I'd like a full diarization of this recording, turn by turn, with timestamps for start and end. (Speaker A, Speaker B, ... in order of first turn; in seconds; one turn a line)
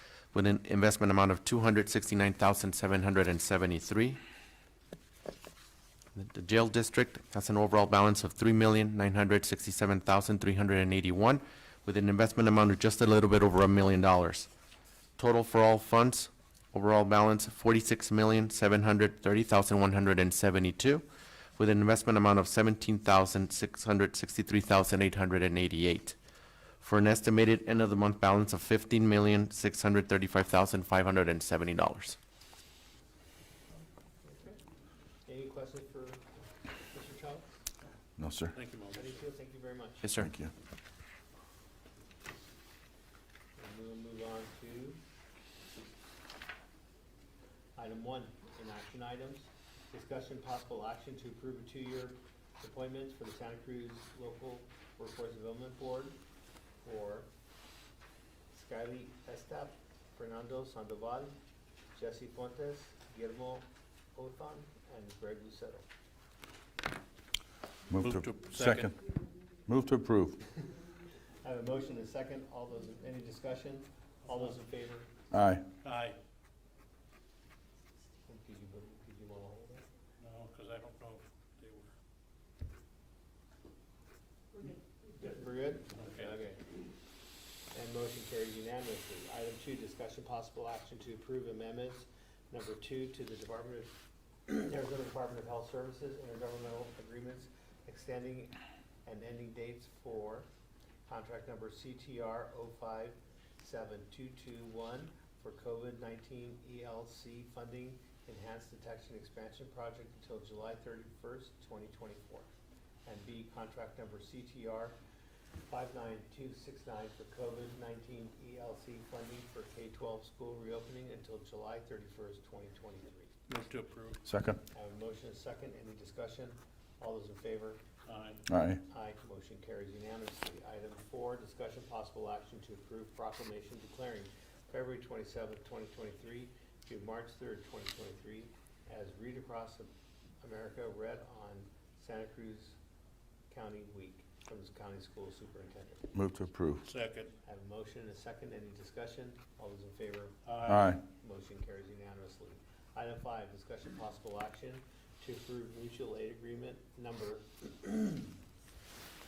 Speaker A: 0.3-4.2
Speaker A: 6.1-14.5
Speaker A: 15.2-21.0
Speaker A: 21.6-26.1
Speaker A: 26.8-32.2
Speaker B: 34.2-34.6
Speaker B: 35.2-36.2
Speaker B: 36.9-37.5
Speaker C: 38.2-38.5
Speaker D: 38.5-39.2
Speaker B: 38.9-40.0
Speaker A: 40.0-40.3
Speaker C: 40.2-40.5
Speaker B: 43.6-45.0
Speaker B: 47.8-56.2
Speaker B: 56.8-57.3
Speaker B: 58.5-61.4
Speaker B: 61.9-65.8
Speaker C: 67.9-69.0
Speaker D: 67.9-68.9
Speaker C: 69.7-70.4
Speaker B: 71.4-75.1
Speaker C: 75.3-75.7
Speaker D: 75.8-76.2
Speaker B: 78.2-79.9
Speaker D: 80.2-81.9
Speaker B: 85.0-86.6
Speaker D: 86.0-86.3
Speaker B: 87.7-93.9
Speaker B: 94.5-100.5
Speaker B: 101.1-112.5
Speaker B: 113.0-115.0
Speaker B: 115.7-123.3
Speaker D: 123.5-124.2
Speaker C: 124.2-124.6
Speaker B: 124.7-127.8
Speaker D: 128.1-128.4
Speaker C: 128.5-128.8
Speaker B: 128.9-142.8
Speaker B: 143.5-146.1
Speaker C: 146.1-146.8
Speaker D: 146.8-147.3
Speaker B: 147.4-150.4
Speaker D: 150.4-151.0
Speaker C: 150.7-151.0
Speaker B: 151.0-158.3